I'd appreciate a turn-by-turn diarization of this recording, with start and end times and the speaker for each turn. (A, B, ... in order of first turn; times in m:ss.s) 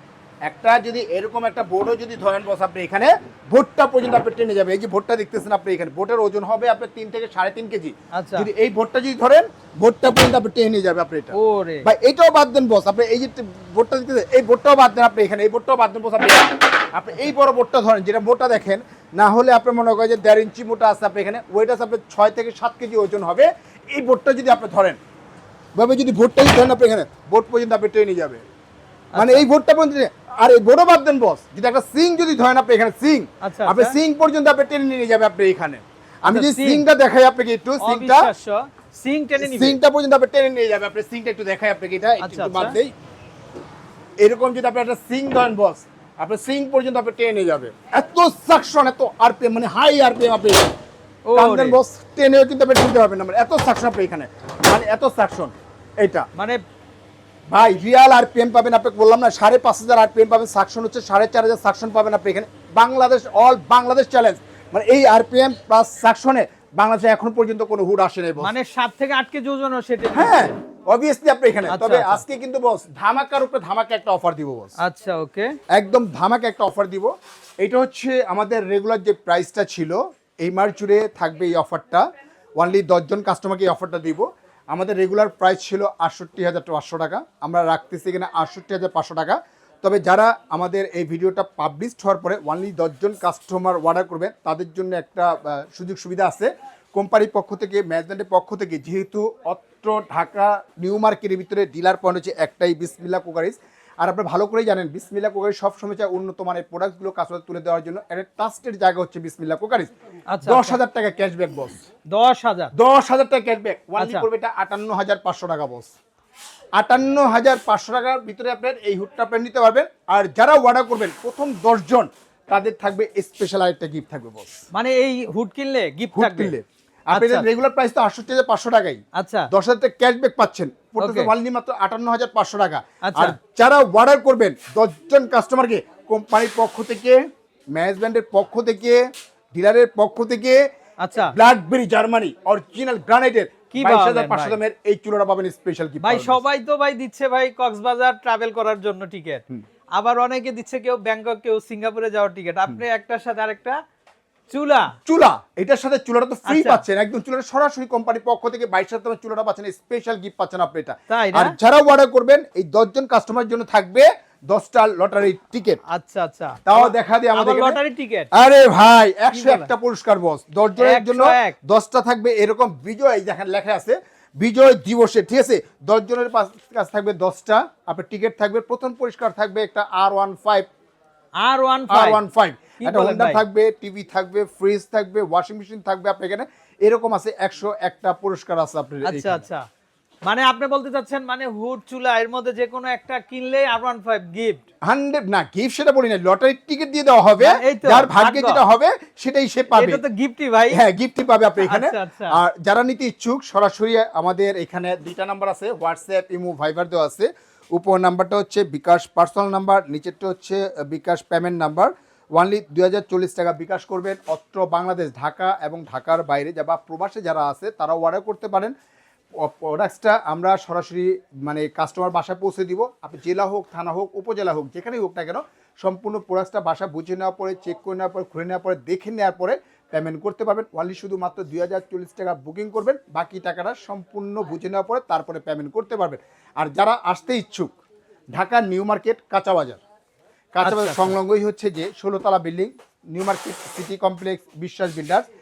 0:00.5-0:25.0 A
0:08.1-0:08.5 B
0:11.3-0:11.9 B
0:25.8-0:28.4 A
0:29.1-0:29.4 B
0:29.2-0:38.3 A
0:33.4-0:34.0 B
0:36.3-0:36.8 B
0:37.8-0:39.8 B
0:39.4-0:42.9 A
0:42.2-0:42.8 B
0:44.2-0:50.7 A
0:51.3-0:51.8 B
0:51.4-0:56.3 A
0:57.5-1:08.5 A
1:08.4-1:10.5 B
1:10.2-1:14.7 A
1:11.7-1:12.2 B
1:14.8-1:15.6 B
1:15.7-1:22.0 A
1:22.6-1:49.9 A
1:50.3-1:50.8 B
1:50.4-1:51.8 A
1:52.1-1:52.7 B
1:52.8-1:55.9 A
1:54.0-1:54.3 B
1:56.8-2:04.5 A
2:04.7-2:06.5 B
2:06.1-2:17.2 A
2:07.1-2:07.5 B
2:09.2-2:09.5 B
2:11.0-2:11.3 B
2:13.0-2:13.4 B
2:17.7-2:19.0 A
2:19.5-2:20.6 A
2:21.0-2:21.4 B
2:21.2-2:26.4 A
2:23.7-2:24.6 B
2:26.0-2:29.4 B
2:30.0-2:33.8 B
2:34.5-2:34.9 B
2:35.1-2:45.8 A
2:36.5-2:36.8 B
2:41.1-2:41.6 B
2:45.9-2:48.3 B
2:46.7-2:47.8 A
2:48.3-3:00.7 A
2:49.3-2:49.7 B
2:50.8-2:51.6 B
3:01.4-3:02.2 B
3:01.9-3:09.4 A
3:02.8-3:03.4 B
3:09.1-3:09.6 B
3:10.3-3:14.6 B
3:14.8-3:20.0 A
3:17.4-3:18.6 B
3:19.7-3:20.8 B
3:20.7-3:38.7 A
3:21.6-3:22.4 B
3:39.4-3:57.7 A
3:58.4-3:59.8 A
4:00.5-4:05.3 A
4:00.6-4:01.2 B